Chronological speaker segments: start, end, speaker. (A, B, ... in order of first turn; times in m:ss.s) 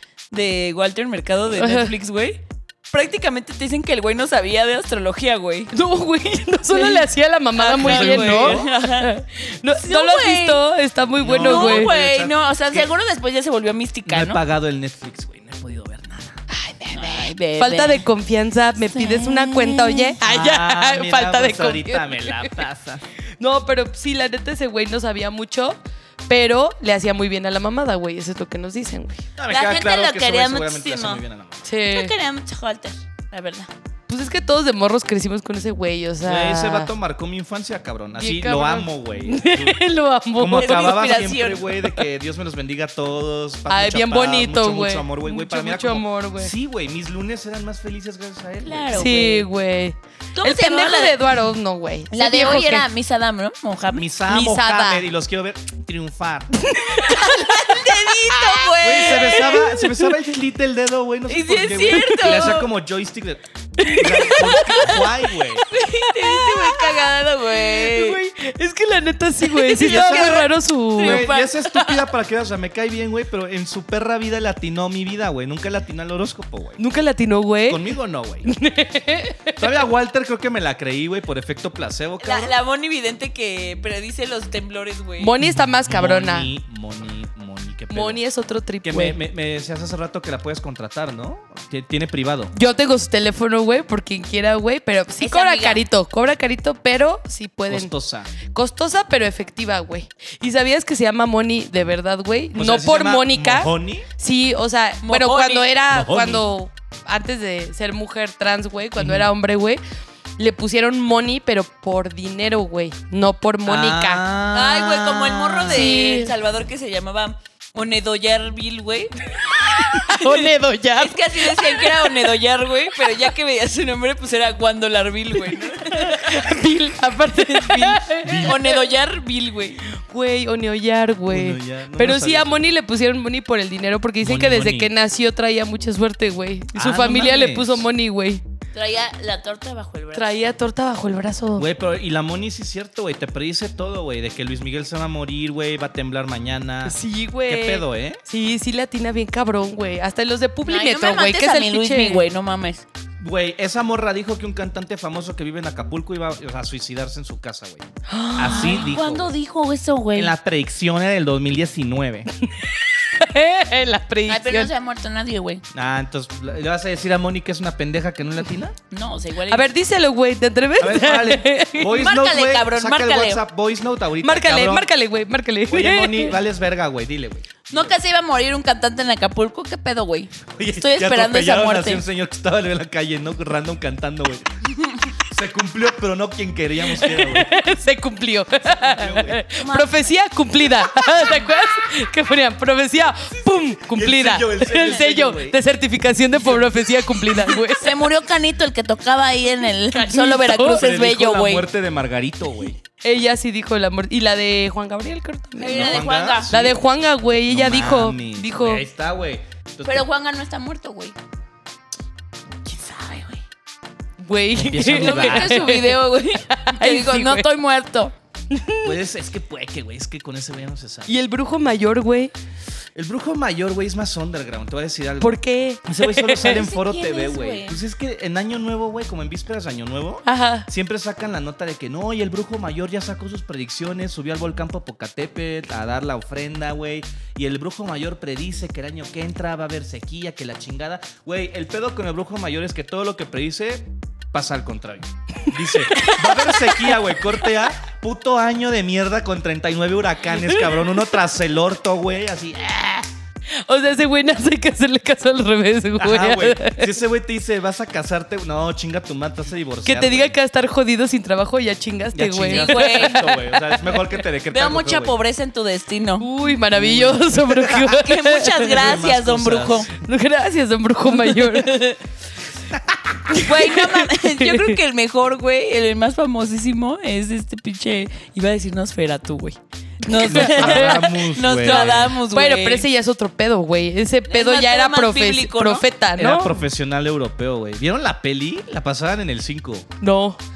0:00.3-0:05.7 A
0:01.6-0:01.9 B
0:05.7-0:11.9 B
0:06.7-0:09.1 A
0:07.8-0:08.7 C
0:09.8-0:10.6 A
0:11.2-0:12.9 C
0:11.4-0:14.4 A
0:14.1-0:16.4 C
0:16.5-0:22.5 B
0:16.9-0:18.1 A
0:18.9-0:20.2 A
0:20.2-0:23.0 C
0:23.4-0:29.2 B
0:29.4-0:31.7 C
0:29.5-0:31.2 A
0:31.6-0:32.1 B
0:31.9-0:33.7 A
0:34.1-0:36.9 B
0:36.2-0:39.8 C
0:38.2-0:41.0 B
0:40.4-0:49.1 C
0:40.6-0:41.9 A
0:43.7-0:46.5 B
0:48.6-0:49.5 A
0:49.0-0:52.9 B
0:50.4-0:51.2 A
0:52.1-0:54.1 A
0:53.9-0:56.6 C
0:54.3-0:55.0 B
0:56.7-0:59.8 B
0:57.0-0:59.7 A
0:58.8-1:05.7 C
1:01.3-1:02.7 A
1:02.0-1:02.6 B
1:03.8-1:04.9 B
1:04.1-1:05.0 A
1:05.7-1:08.2 A
1:06.0-1:07.1 B
1:07.6-1:11.3 B
1:09.5-1:12.0 A
1:09.8-1:10.5 C
1:11.0-1:16.8 C
1:16.8-1:17.8 B
1:17.7-1:18.5 C
1:18.5-1:19.6 B
1:19.6-1:22.5 C
1:22.2-1:25.3 A
1:25.2-1:26.5 B
1:25.4-1:28.2 C
1:27.9-1:29.2 B
1:28.8-1:32.5 C
1:32.5-1:37.9 B
1:35.2-1:35.8 A
1:37.7-1:38.3 C
1:38.5-1:49.8 B
1:42.5-1:44.1 C
1:45.0-1:45.8 A
1:45.9-1:46.5 C
1:49.0-1:49.3 C
1:50.4-1:54.2 B
1:53.6-1:55.9 C
1:54.5-2:06.5 A
1:55.7-1:56.3 B
1:59.8-2:02.2 B
2:05.8-2:08.8 B
2:07.4-2:09.8 A
2:08.2-2:08.6 C
2:09.9-2:18.4 B
2:11.3-2:12.7 C
2:14.2-2:14.9 C
2:16.8-2:17.9 C
2:18.7-2:20.4 A
2:20.1-2:21.7 B
2:21.6-2:28.2 C
2:26.8-2:32.2 B
2:30.6-2:32.8 A
2:33.2-2:39.3 C
2:38.1-2:38.9 B
2:38.4-2:40.3 A
2:40.2-2:42.3 C
2:42.5-2:44.7 B
2:44.3-2:45.6 A
2:45.7-2:48.8 C
2:48.9-2:49.7 A
2:49.5-2:51.9 B
2:50.8-2:54.9 C
2:51.9-2:53.4 A
2:54.2-2:56.4 B
2:55.7-2:58.0 C
2:57.7-3:02.0 A
3:00.6-3:04.5 C
3:05.3-3:07.6 C
3:06.9-3:17.9 B
3:08.7-3:09.4 C
3:09.6-3:10.1 A
3:13.8-3:15.6 C
3:17.3-3:21.7 A
3:19.9-3:20.8 B
3:20.7-3:22.8 C
3:23.0-3:28.8 B
3:25.6-3:26.5 A
3:25.7-3:26.8 C
3:27.5-3:30.1 C
3:29.8-3:31.2 A
3:32.7-3:33.4 A
3:34.2-3:37.5 B
3:34.6-3:35.7 C
3:34.9-3:38.1 A
3:38.5-3:38.9 B
3:38.8-3:41.1 C
3:41.1-3:42.3 B
3:43.0-4:13.1 C
3:45.2-3:46.6 B
3:46.5-3:47.8 A
3:50.3-3:50.7 B
4:05.9-4:06.9 B
4:10.4-4:10.8 B
4:13.7-4:16.9 B
4:16.0-4:20.4 C
4:19.8-4:23.8 B
4:22.1-4:25.2 C
4:22.5-4:23.2 A
4:24.5-4:26.3 A
4:26.2-4:28.8 B
4:26.7-4:27.6 C
4:27.7-4:29.9 A
4:28.7-4:29.9 C
4:30.0-4:32.0 B
4:31.3-4:31.9 A
4:32.7-4:33.2 C
4:33.3-4:34.8 B
4:33.4-4:42.9 A
4:40.1-4:46.6 B
4:40.2-4:42.1 C
4:44.3-4:45.9 A
4:46.2-4:49.9 C
4:50.0-4:50.4 B